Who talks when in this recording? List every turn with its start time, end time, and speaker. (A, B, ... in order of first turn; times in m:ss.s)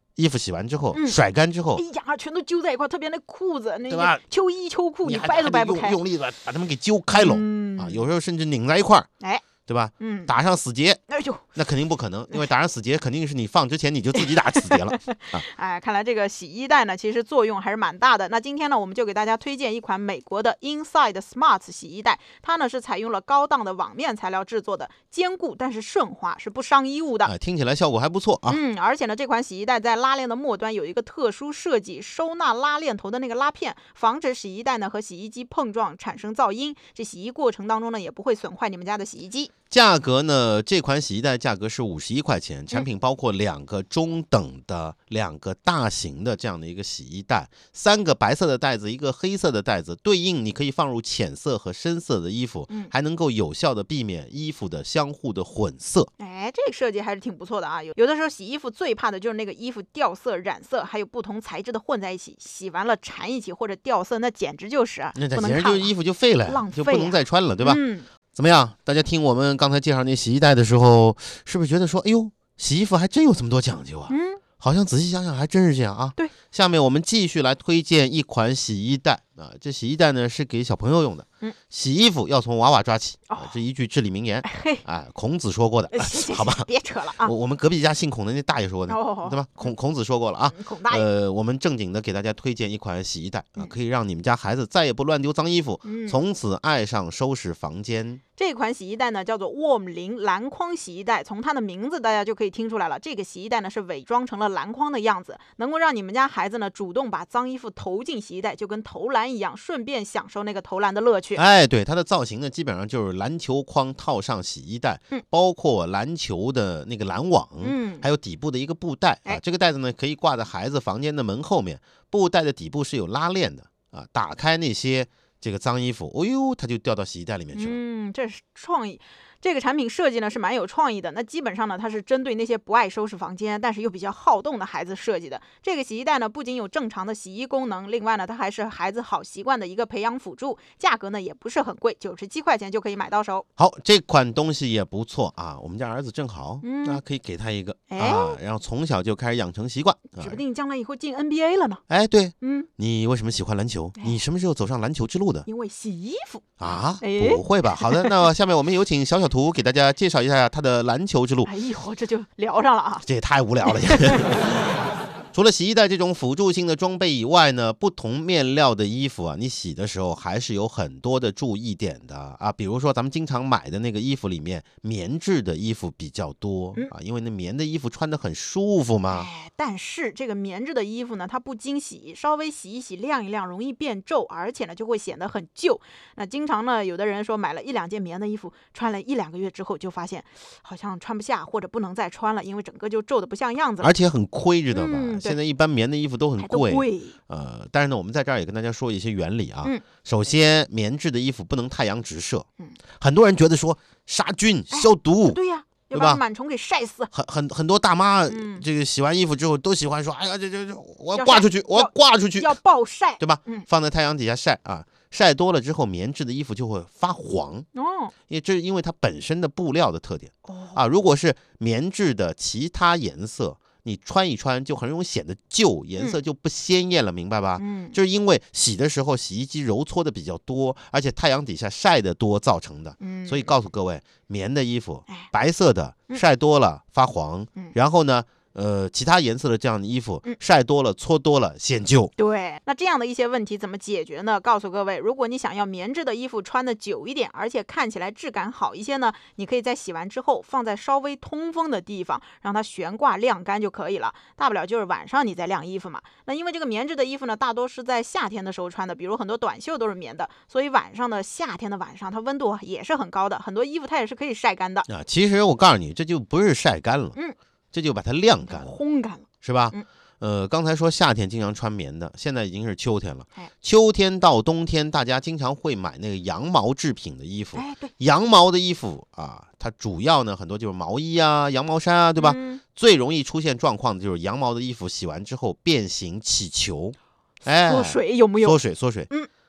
0:00.2-0:01.8 A
0:00.9-0:01.2 B
0:01.7-0:06.0 B
0:03.9-0:04.2 A
0:05.0-0:09.1 A
0:07.1-0:08.0 B
0:09.2-0:09.5 B
0:09.6-0:11.0 A
0:10.0-0:10.3 B
0:11.1-0:11.5 B
0:11.5-0:15.4 A
0:14.1-0:27.3 B
0:27.2-0:28.6 A
0:28.5-0:39.5 B
0:39.7-0:56.1 A
0:56.2-1:05.9 B
1:05.2-1:07.8 A
1:06.4-1:08.0 B
1:08.3-1:26.7 A
1:14.1-1:14.4 B
1:23.3-1:23.6 B
1:24.4-1:24.8 B
1:25.9-1:27.3 B
1:27.2-1:38.2 A
1:28.9-1:29.7 B
1:30.5-1:31.0 B
1:35.8-1:36.2 B
1:38.4-1:51.4 B
1:51.3-2:07.8 A
1:57.6-1:58.1 B
2:07.5-2:23.4 B
2:23.6-2:30.4 A
2:26.6-2:27.0 B
2:27.9-2:28.4 B
2:30.2-2:31.8 B
2:31.9-2:35.5 A
2:32.4-2:32.7 B
2:35.4-2:38.1 B
2:36.6-2:41.5 A
2:41.4-2:43.0 B
2:43.0-2:44.7 A
2:43.7-2:44.3 B
2:45.3-2:59.3 A
2:59.1-3:13.9 B
3:13.8-3:22.4 A
3:14.7-3:15.4 B
3:16.4-3:17.2 B
3:23.0-3:25.4 A
3:24.7-3:27.1 B
3:25.9-3:26.2 A
3:27.1-3:32.6 A
3:28.3-3:28.6 B
3:31.1-3:33.7 B
3:33.2-3:37.7 A
3:37.7-3:38.1 B
3:38.3-4:02.1 A
3:40.5-3:40.8 B
3:47.6-3:48.0 B
3:53.0-3:53.5 B
4:02.2-4:24.9 B
4:24.9-4:27.2 A
4:27.7-4:28.7 A
4:28.5-4:29.8 B
4:29.4-4:49.1 A
4:37.5-4:37.9 B
4:42.2-4:42.6 B
4:47.6-4:49.3 B